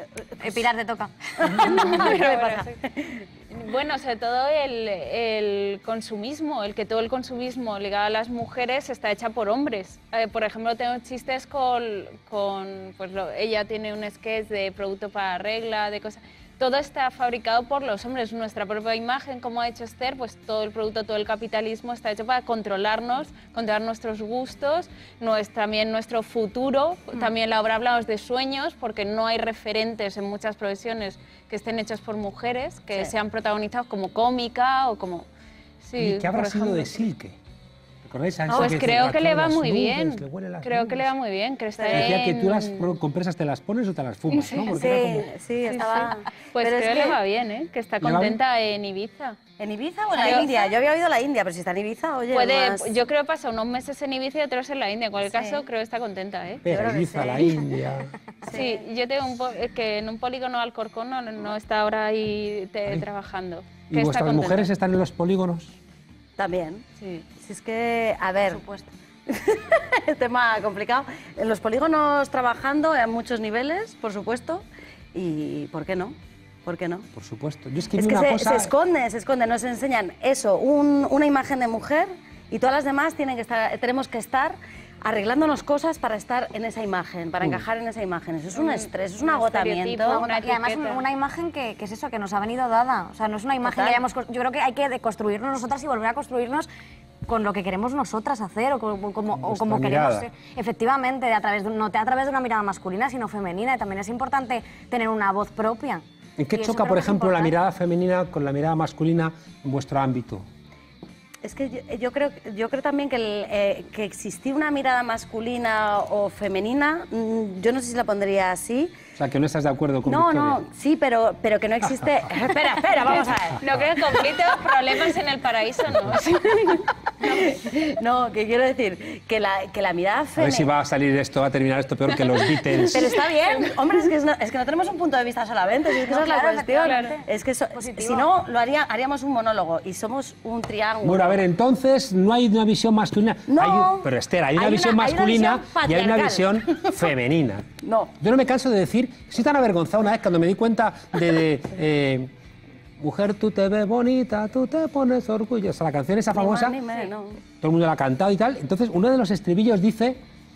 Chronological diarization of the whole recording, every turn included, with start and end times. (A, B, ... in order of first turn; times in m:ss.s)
0:00.2-0:00.6 A
0:00.4-0:01.9 B
0:01.4-0:03.2 A
0:01.6-0:02.7 C
0:03.5-0:35.3 C
0:35.8-0:37.0 C
0:36.0-0:37.4 D
0:38.0-0:41.1 D
0:38.5-0:38.8 A
0:38.5-0:43.0 C
0:41.8-0:42.2 A
0:41.9-0:45.3 D
0:44.3-0:44.8 C
0:44.7-0:47.2 A
0:45.6-0:49.4 C
0:48.0-0:48.4 D
0:49.6-0:52.9 A
0:50.1-0:50.7 C
0:52.3-0:56.6 C
0:55.3-0:55.6 A
0:56.6-0:58.1 D
0:56.7-0:57.7 A
0:58.5-0:58.8 A
0:58.5-1:04.7 C
1:03.9-1:05.8 D
1:06.4-1:08.6 A
1:08.4-1:08.9 B
1:09.3-1:14.6 A
1:15.1-1:16.1 A
1:16.6-1:17.0 A
1:17.1-1:18.7 D
1:17.9-1:30.3 A
1:28.6-1:31.1 C
1:30.1-1:36.7 B
1:33.6-1:34.0 A
1:37.2-1:47.5 B
1:39.4-1:40.3 D
1:46.4-1:50.5 D
1:51.4-1:58.9 A
1:59.2-2:00.6 D
2:00.0-2:03.6 A
2:03.0-2:06.9 C
2:07.2-2:10.7 A
2:10.4-2:13.0 D
2:12.7-2:13.5 C
2:12.9-2:21.4 A
2:16.0-2:18.3 B
2:16.8-2:17.2 C
2:21.0-2:27.6 D
2:23.5-2:26.9 A
2:27.8-2:28.1 A
2:28.2-2:32.3 D
2:33.0-2:36.8 D
2:36.3-2:37.4 A
2:37.6-2:40.2 D